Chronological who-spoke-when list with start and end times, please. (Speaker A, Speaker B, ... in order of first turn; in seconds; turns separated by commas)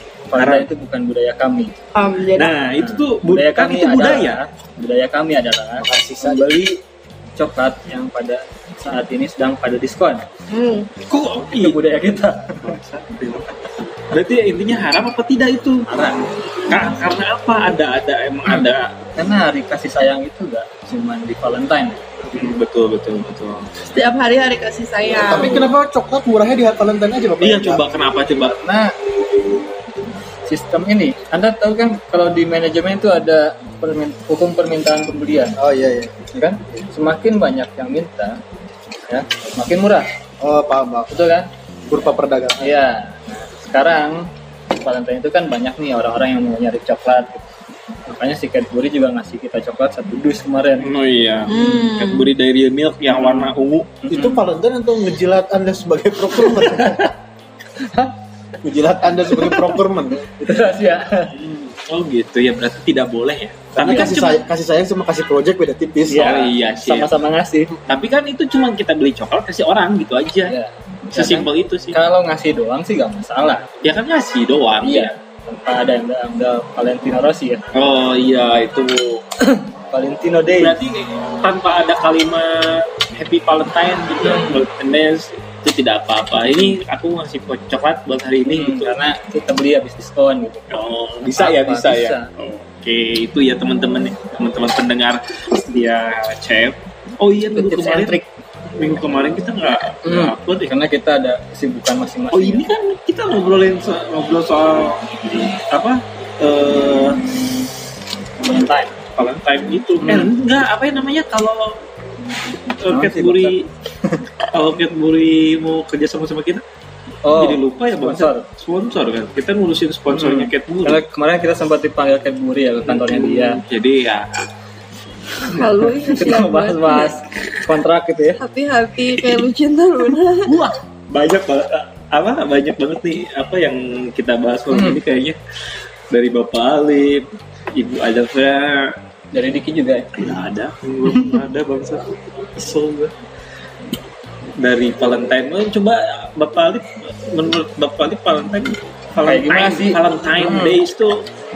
Speaker A: 0.3-1.7, Speaker B: 0.3-0.7, Speaker C: 1.9-2.5, Speaker B: 2.4-4.4, Speaker A: 2.8-6.8, Speaker D: 5.8-6.6, Speaker A: 7.4-10.2, Speaker C: 10.5-10.9, Speaker B: 11.1-11.8, Speaker A: 11.5-12.8, Speaker B: 12.6-13.5, Speaker B: 14.1-15.9, Speaker A: 15.9-16.2, Speaker B: 16.7-19.0, Speaker A: 19.2-22.0, Speaker B: 22.3-23.7, Speaker C: 23.9-25.6, Speaker D: 25.2-27.9, Speaker A: 25.2-25.7, Speaker B: 27.4-28.6, Speaker A: 28.5-28.9, Speaker A: 30.5-35.6, Speaker D: 35.6-36.3, Speaker A: 36.4-38.4, Speaker A: 39.1-40.1, Speaker D: 40.4-41.1, Speaker A: 41.1-41.5, Speaker D: 41.9-42.8, Speaker A: 42.6-47.4, Speaker A: 48.1-50.9, Speaker B: 50.8-54.0, Speaker C: 51.5-52.3, Speaker A: 54.1-54.4, Speaker D: 54.1-57.1, Speaker A: 56.6-57.1, Speaker A: 57.8-58.1, Speaker D: 58.6-60.3, Speaker A: 59.1-59.8, Speaker A: 60.4-61.3, Speaker B: 61.3-64.4, Speaker D: 63.8-66.5, Speaker A: 66.1-67.8, Speaker B: 66.2-67.1, Speaker B: 67.9-70.5, Speaker A: 70.5-73.7, Speaker B: 71.1-72.0, Speaker B: 73.8-75.2, Speaker A: 74.8-77.6, Speaker B: 77.7-79.2, Speaker A: 79.4-80.8, Speaker B: 80.6-89.0, Speaker A: 88.5-92.3, Speaker B: 90.7-98.2, Speaker A: 97.6-98.3, Speaker B: 98.8-100.7, Speaker A: 100.0-102.7, Speaker B: 102.3-107.3, Speaker A: 108.4-108.9, Speaker B: 109.2-111.8, Speaker A: 110.0-110.3, Speaker B: 112.8-113.7, Speaker A: 112.9-114.2, Speaker B: 114.5-116.6, Speaker A: 117.2-118.5, Speaker B: 117.3-121.0, Speaker A: 120.1-123.6, Speaker B: 122.8-124.4, Speaker C: 125.5-127.1, Speaker A: 126.1-128.4, Speaker C: 128.4-130.6, Speaker B: 130.4-135.4, Speaker A: 134.7-135.0, Speaker B: 136.1-139.0, Speaker A: 139.3-140.1, Speaker B: 140.1-143.1, Speaker B: 144.6-151.2, Speaker A: 149.2-150.8